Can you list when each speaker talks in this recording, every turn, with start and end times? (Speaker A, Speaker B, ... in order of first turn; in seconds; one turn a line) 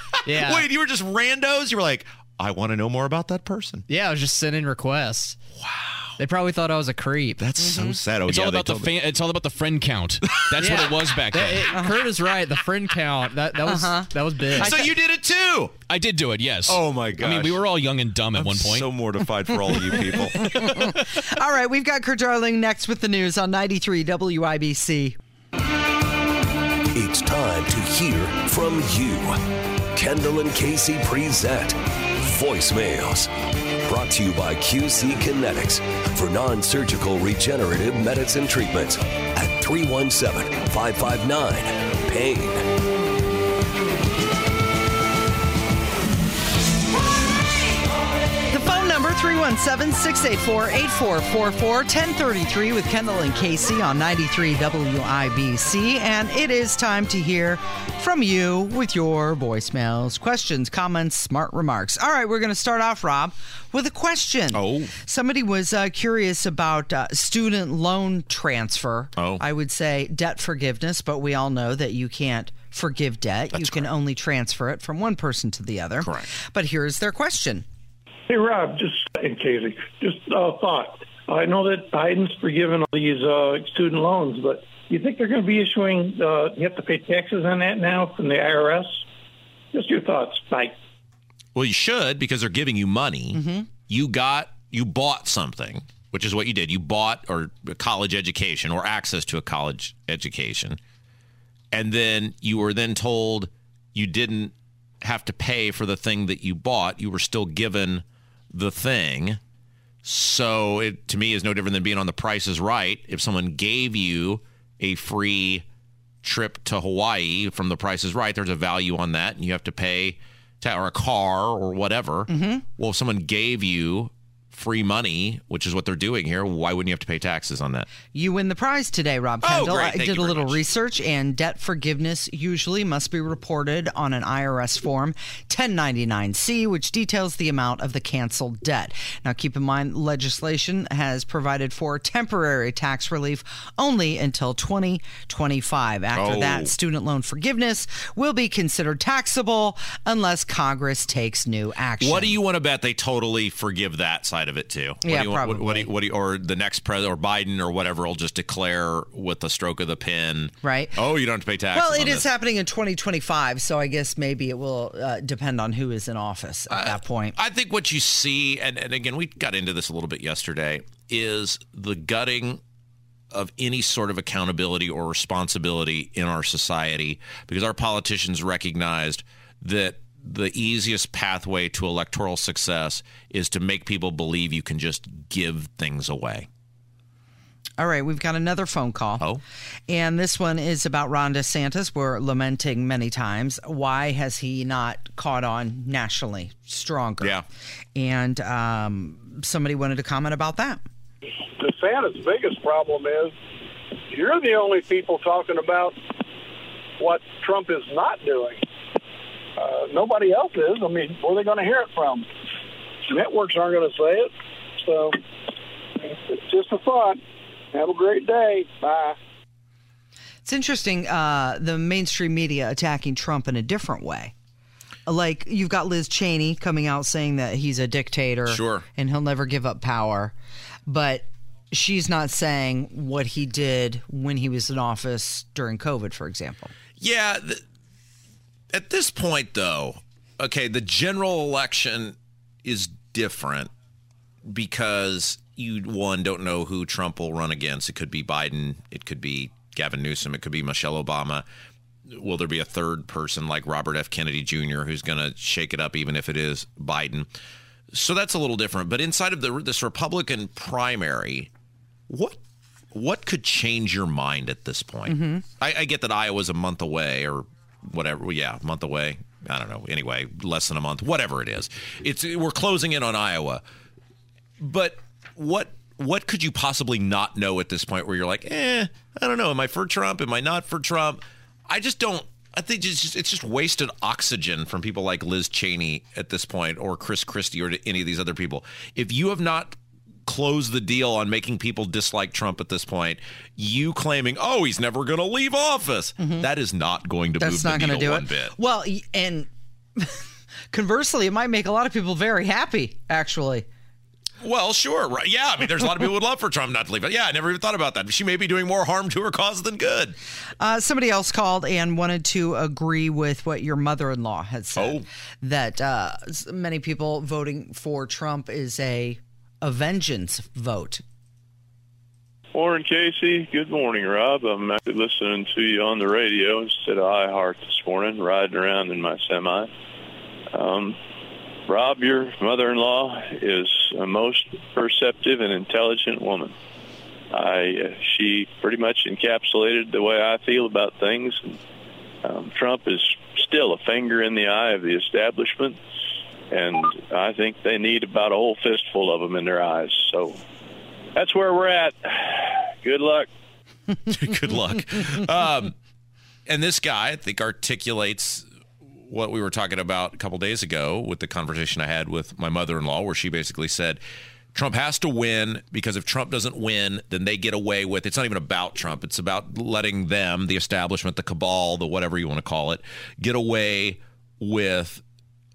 Speaker A: 0.2-0.7
Speaker B: 0.3-3.8
Speaker A: 3.9-5.4
Speaker B: 5.6-6.1
Speaker A: 6.2-7.5
Speaker B: 7.4-8.9
Speaker C: 8.2-11.8
Speaker B: 10.3-10.8
Speaker A: 10.6-14.8
Speaker D: 13.6-14.8
Speaker B: 14.5-15.8
Speaker C: 15.9-18.9
Speaker B: 16.6-17.6
Speaker B: 18.4-20.5
Speaker D: 20.4-25.2
Speaker C: 20.7-21.0
Speaker E: 26.9-29.4
Speaker E: 29.9-33.3
Speaker E: 33.8-42.7
Speaker D: 48.5-77.6
Speaker B: 64.5-64.9
Speaker B: 69.2-69.4
Speaker B: 73.5-73.9
Speaker B: 76.0-76.3
Speaker F: 78.3-89.0
Speaker F: 89.7-90.8
Speaker B: 91.5-100.8
Speaker D: 93.3-93.7
Speaker B: 101.7-109.4
Speaker B: 110.0-115.6
Speaker B: 116.2-127.9
Speaker D: 122.3-122.6
Speaker D: 128.1-152.3
Speaker B: 129.4-130.6
Speaker B: 146.2-146.7
Speaker B: 152.0-162.3
Speaker D: 155.0-155.9
Speaker D: 160.6-161.0
Speaker D: 161.7-167.3
Speaker B: 166.7-172.6
Speaker B: 173.3-186.5
Speaker D: 187.8-189.2
Speaker D: 189.9-197.3
Speaker D: 197.9-200.8
Speaker G: 201.6-203.3
Speaker G: 204.1-205.9
Speaker G: 207.0-208.6
Speaker G: 209.6-212.3
Speaker G: 213.1-215.2
Speaker G: 216.1-217.2
Speaker G: 217.7-219.2
Speaker D: 220.4-224.3
Speaker D: 225.1-230.3
Speaker B: 228.5-228.8
Speaker D: 230.9-236.7
Speaker B: 237.0-237.6
Speaker B: 238.7-243.7
Speaker B: 244.4-251.4
Speaker B: 252.1-257.3
Speaker B: 257.9-261.5
Speaker B: 262.1-262.4
Speaker B: 262.9-273.6
Speaker D: 265.1-265.4
Speaker B: 274.6-298.5
Speaker D: 297.4-303.6
Speaker B: 304.4-310.1
Speaker D: 310.6-321.0
Speaker B: 314.8-315.0
Speaker H: 322.5-329.7
Speaker H: 330.5-331.0
Speaker H: 331.7-336.5
Speaker H: 337.3-341.6
Speaker H: 342.2-345.8
Speaker H: 346.5-350.4
Speaker H: 351.1-353.3
Speaker B: 354.1-355.7
Speaker B: 356.5-358.4
Speaker B: 359.1-364.0
Speaker B: 364.5-375.0